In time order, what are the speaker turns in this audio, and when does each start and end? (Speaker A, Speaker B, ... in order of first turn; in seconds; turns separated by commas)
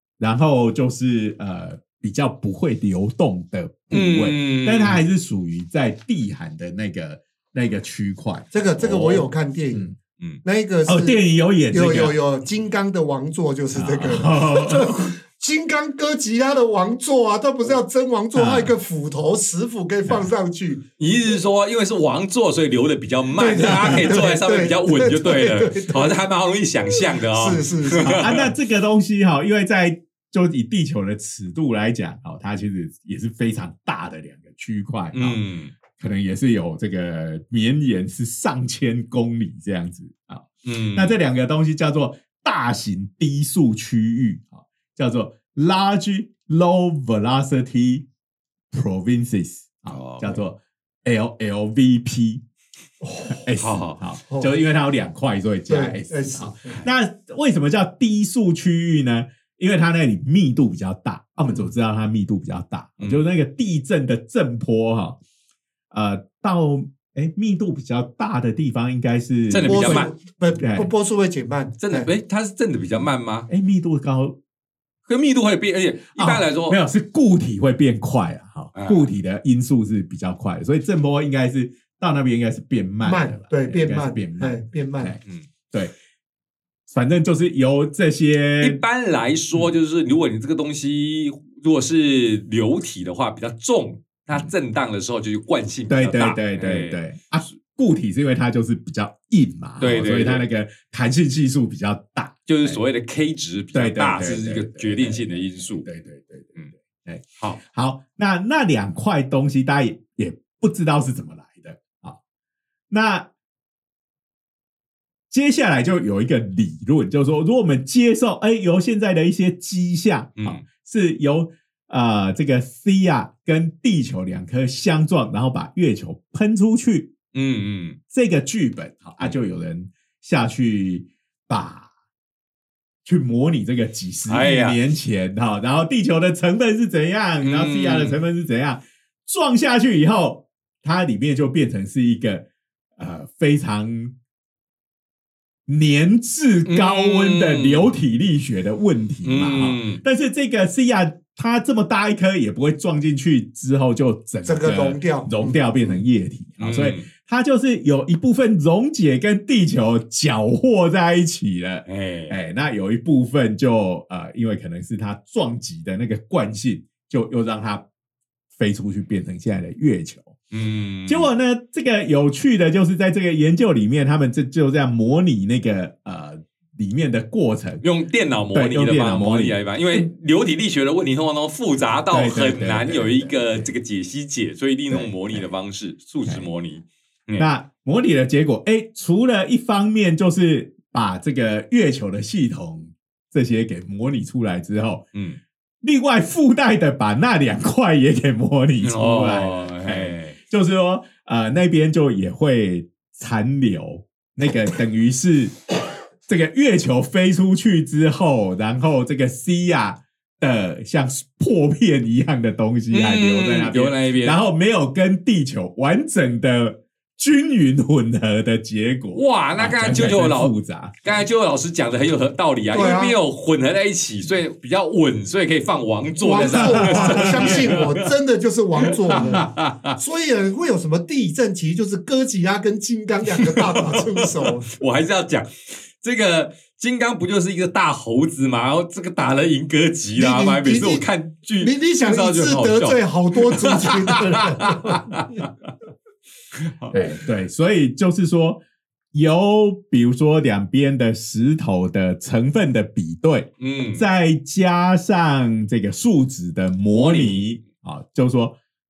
Speaker A: 0.2-10.0, Speaker B: 3.9-5.0, Speaker C: 8.5-9.9, Speaker C: 10.4-11.2, Speaker A: 10.9-12.2, Speaker C: 11.7-20.8, Speaker A: 13.7-15.1, Speaker A: 18.3-18.7, Speaker B: 21.0-28.5, Speaker C: 23.4-26.2, Speaker A: 23.8-24.1, Speaker C: 27.2-28.3, Speaker A: 28.1-35.4, Speaker B: 35.1-35.8, Speaker A: 36.0-48.1, Speaker B: 40.6-41.2, Speaker A: 48.7-52.4, Speaker B: 49.9-50.4, Speaker C: 53.0-53.5, Speaker A: 53.3-65.2, Speaker B: 53.6-54.0, Speaker C: 54.3-54.5, Speaker C: 55.7-56.9, Speaker B: 63.0-63.3, Speaker A: 65.9-70.9, Speaker B: 69.5-70.1, Speaker C: 69.7-72.1, Speaker B: 71.8-73.5, Speaker A: 73.5-74.4, Speaker B: 75.1-76.8, Speaker A: 76.2-85.2, Speaker B: 78.8-79.1, Speaker C: 83.0-85.2, Speaker B: 85.2-85.5, Speaker A: 86.9-88.8, Speaker B: 88.6-97.5, Speaker A: 95.9-102.8, Speaker B: 99.8-100.5, Speaker B: 102.5-105.9, Speaker A: 103.7-112.2, Speaker A: 112.9-113.3, Speaker A: 115.3-127.1, Speaker B: 120.4-120.6, Speaker B: 127.3-128.0, Speaker A: 128.1-131.9, Speaker A: 133.1-142.4, Speaker B: 134.3-134.8, Speaker B: 137.4-138.2, Speaker A: 143.0-144.1, Speaker A: 145.7-167.8, Speaker B: 146.7-147.9, Speaker B: 149.2-150.0, Speaker C: 154.4-155.6, Speaker B: 156.6-157.1, Speaker B: 161.9-162.4, Speaker A: 168.6-170.4, Speaker B: 170.5-171.3, Speaker A: 171.1-177.8, Speaker B: 177.8-187.5, Speaker A: 178.5-180.1, Speaker A: 182.1-183.7, Speaker A: 184.9-185.5, Speaker A: 187.4-195.1, Speaker B: 195.1-195.4, Speaker A: 195.8-205.6, Speaker B: 198.8-200.4, Speaker A: 206.3-221.2, Speaker B: 212.9-214.4, Speaker B: 219.1-228.1, Speaker C: 222.7-223.2, Speaker C: 226.2-234.7, Speaker A: 226.5-227.8, Speaker B: 228.8-230.0, Speaker B: 233.4-245.7, Speaker C: 240.2-241.1, Speaker C: 241.6-245.2, Speaker B: 246.6-247.1, Speaker A: 246.9-248.6, Speaker A: 249.1-258.6, Speaker B: 253.6-254.0, Speaker B: 256.9-257.5